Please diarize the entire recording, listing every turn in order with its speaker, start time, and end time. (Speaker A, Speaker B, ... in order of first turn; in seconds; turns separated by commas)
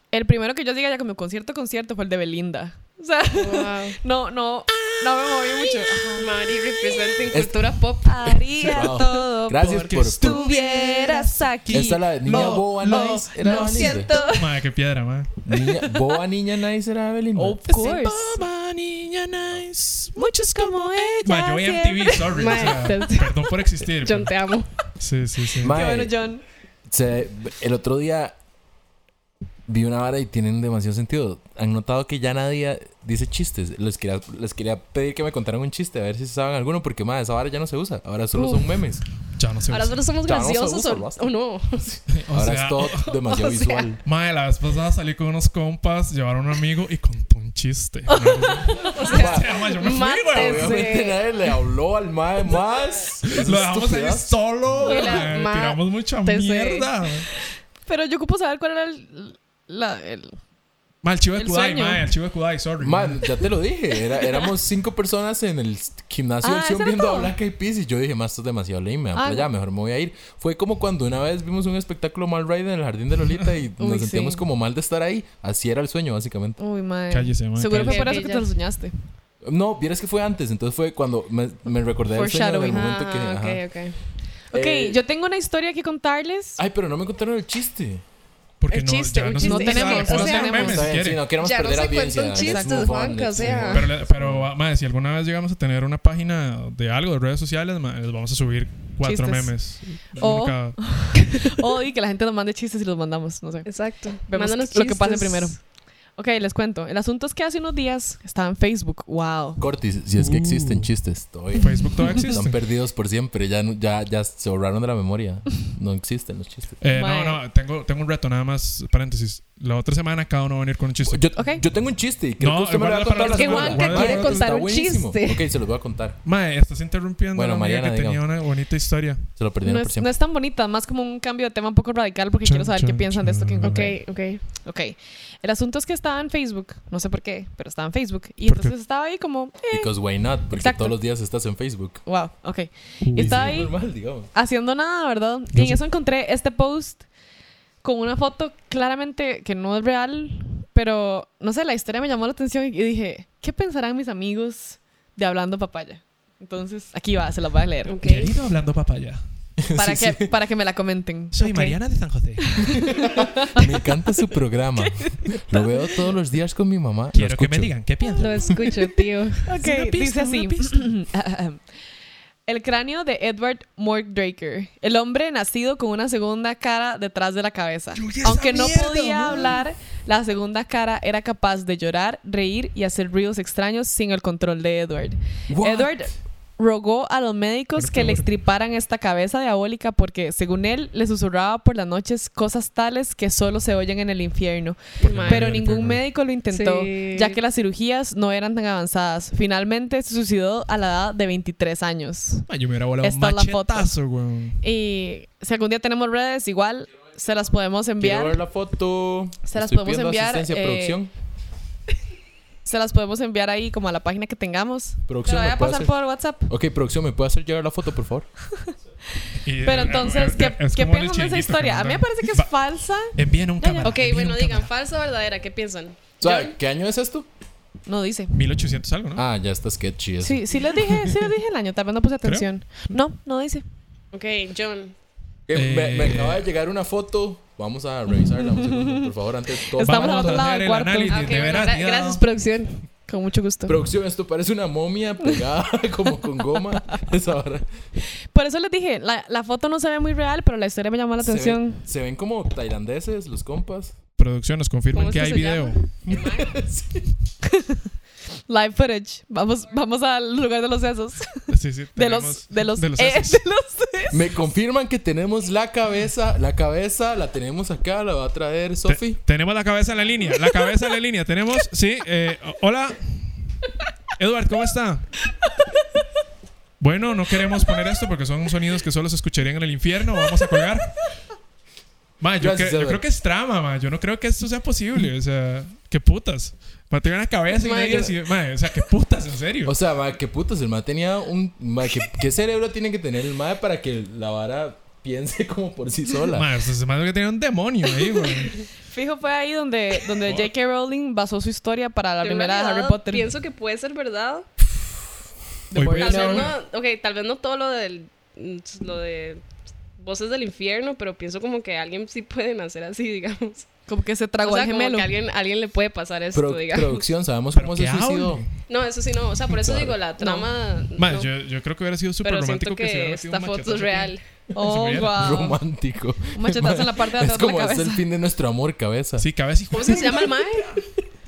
Speaker A: 0.1-7.1, Speaker B: 3.3-4.0, Speaker B: 6.2-9.2, Speaker C: 7.3-10.5, Speaker A: 8.0-14.5, Speaker D: 9.6-13.2, Speaker B: 10.5-11.3, Speaker C: 11.7-14.1, Speaker B: 13.4-14.4, Speaker D: 14.2-15.3, Speaker C: 15.4-17.7, Speaker A: 15.6-15.8, Speaker A: 17.4-18.4, Speaker D: 17.7-24.3, Speaker A: 20.1-22.9, Speaker B: 22.3-24.7, Speaker D: 25.0-25.8, Speaker C: 25.6-26.1, Speaker A: 25.7-26.4, Speaker C: 26.9-28.4, Speaker C: 29.7-39.0, Speaker B: 38.4-38.6, Speaker D: 39.4-40.1, Speaker B: 39.7-42.0, Speaker C: 40.2-41.2, Speaker C: 41.8-44.0, Speaker D: 42.1-43.0, Speaker B: 42.8-43.9, Speaker D: 44.0-50.9, Speaker A: 48.6-49.1, Speaker B: 48.7-51.2, Speaker C: 49.0-55.0, Speaker D: 53.3-57.3, Speaker B: 54.8-56.9, Speaker A: 57.9-60.4, Speaker D: 61.0-63.3, Speaker A: 61.4-62.1, Speaker C: 62.8-76.6, Speaker A: 66.4-67.3, Speaker A: 69.1-69.5, Speaker A: 73.8-74.4, Speaker A: 76.6-79.0, Speaker D: 77.1-78.1, Speaker B: 77.7-78.5, Speaker C: 79.4-83.6, Speaker A: 82.1-82.8, Speaker B: 82.6-84.0, Speaker C: 84.5-85.0, Speaker A: 84.5-86.6, Speaker C: 86.6-88.0, Speaker D: 88.6-91.2, Speaker B: 88.7-93.9, Speaker A: 89.4-90.9, Speaker C: 90.5-94.5, Speaker A: 92.3-92.9, Speaker D: 93.4-101.2, Speaker A: 99.0-99.6, Speaker A: 100.2-103.7, Speaker B: 103.7-105.5, Speaker A: 104.3-105.6, Speaker A: 106.2-109.6, Speaker C: 109.6-116.8, Speaker D: 110.2-110.9, Speaker D: 111.5-112.6, Speaker D: 116.8-121.3, Speaker A: 116.9-117.4, Speaker C: 121.0-126.2, Speaker A: 121.4-121.6, Speaker D: 122.4-124.6, Speaker B: 123.2-125.5, Speaker D: 126.2-129.3, Speaker C: 127.3-128.2, Speaker C: 129.4-130.1, Speaker A: 129.6-134.0, Speaker D: 132.4-133.9, Speaker B: 133.6-134.4, Speaker A: 134.6-139.9, Speaker D: 138.4-138.7, Speaker C: 139.7-142.0, Speaker A: 140.5-141.0, Speaker A: 142.1-143.8, Speaker D: 143.0-143.5, Speaker C: 143.2-144.3, Speaker A: 144.3-147.1, Speaker D: 145.5-145.8, Speaker A: 147.8-158.0, Speaker B: 157.9-158.4, Speaker D: 158.0-159.2, Speaker C: 159.6-160.3, Speaker A: 159.8-161.6, Speaker D: 161.3-163.0, Speaker B: 161.4-161.8, Speaker A: 162.4-163.9, Speaker C: 162.9-167.8, Speaker A: 164.8-165.8, Speaker D: 167.1-168.5, Speaker A: 168.2-168.9, Speaker B: 168.2-169.4, Speaker A: 169.4-171.6, Speaker D: 169.6-170.9, Speaker A: 172.5-202.5, Speaker D: 178.0-179.6, Speaker C: 185.5-186.0, Speaker D: 187.8-188.3, Speaker B: 195.0-195.5, Speaker D: 195.0-196.0, Speaker B: 196.5-197.4, Speaker D: 202.5-204.6, Speaker A: 203.0-203.9, Speaker A: 204.6-208.4, Speaker C: 208.0-211.1, Speaker A: 209.5-211.0, Speaker A: 212.7-216.5, Speaker C: 215.1-215.9, Speaker C: 216.5-218.3, Speaker D: 219.4-222.5, Speaker A: 219.6-224.0, Speaker D: 223.1-224.7, Speaker B: 223.8-226.6, Speaker C: 226.2-227.3, Speaker A: 227.9-228.3, Speaker D: 228.3-229.2, Speaker C: 229.2-230.6, Speaker A: 230.2-233.6, Speaker D: 232.2-232.9, Speaker B: 234.1-235.0, Speaker C: 235.5-240.5, Speaker D: 235.5-236.5, Speaker A: 238.5-239.1, Speaker A: 239.8-241.6, Speaker D: 239.8-242.2, Speaker B: 241.1-242.8, Speaker A: 243.1-243.8, Speaker C: 243.7-247.7, Speaker A: 248.3-251.8, Speaker C: 251.2-254.0, Speaker D: 254.2-255.8, Speaker B: 254.9-256.6, Speaker C: 256.1-257.1, Speaker A: 257.4-257.9, Speaker A: 258.5-264.3, Speaker D: 261.5-263.4, Speaker C: 264.1-269.2, Speaker D: 268.9-273.4, Speaker D: 274.2-275.1, Speaker D: 276.8-281.1, Speaker D: 282.2-289.8, Speaker C: 282.4-283.0, Speaker B: 287.5-288.2, Speaker C: 289.6-296.5, Speaker D: 296.3-298.6, Speaker A: 298.9-303.3, Speaker B: 302.2-304.5, Speaker A: 305.7-306.5, Speaker D: 305.7-306.6, Speaker B: 306.0-309.4, Speaker B: 310.0-313.7, Speaker A: 313.9-315.1, Speaker B: 314.4-317.1, Speaker C: 316.3-318.4, Speaker D: 317.6-318.5, Speaker B: 318.7-321.3, Speaker C: 319.5-320.0, Speaker A: 320.2-320.5, Speaker D: 321.0-325.2, Speaker B: 322.2-324.2, Speaker A: 324.5-325.6, Speaker C: 325.1-329.3, Speaker A: 326.3-328.0, Speaker D: 329.2-330.4, Speaker B: 329.7-330.8